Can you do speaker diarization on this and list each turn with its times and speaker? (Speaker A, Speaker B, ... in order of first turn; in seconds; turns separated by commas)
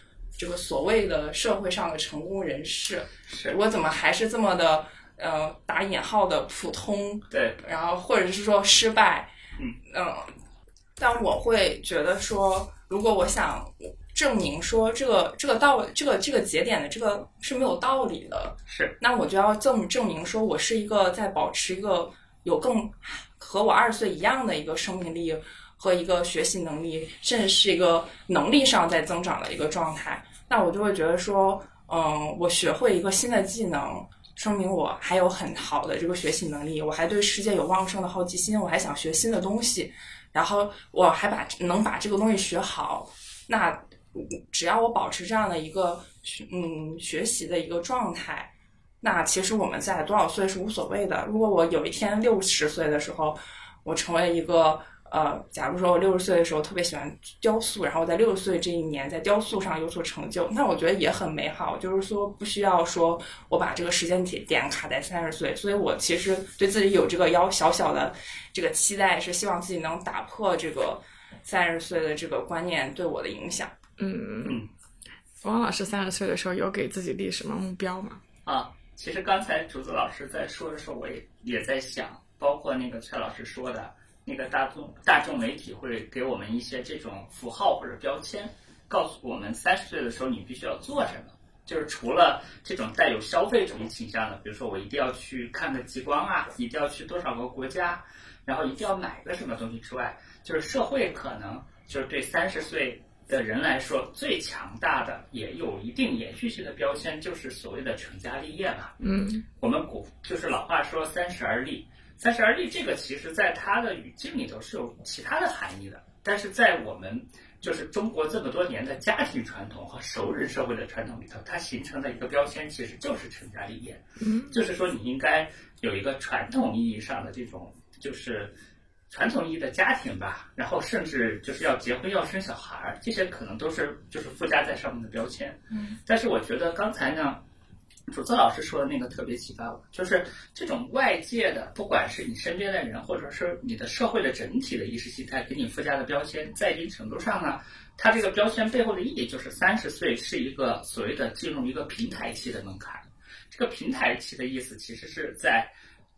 Speaker A: 0.4-9.3, Speaker B: 3.3-3.5, Speaker B: 7.3-7.6, Speaker A: 9.9-10.3, Speaker A: 11.0-48.5, Speaker B: 18.7-18.9, Speaker A: 49.0-73.7, Speaker C: 74.0-74.6, Speaker C: 75.4-78.2, Speaker B: 78.5-109.0, Speaker C: 109.0-109.5, Speaker B: 109.6-128.5, Speaker C: 124.2-124.6, Speaker B: 129.1-137.4, Speaker B: 138.1-155.7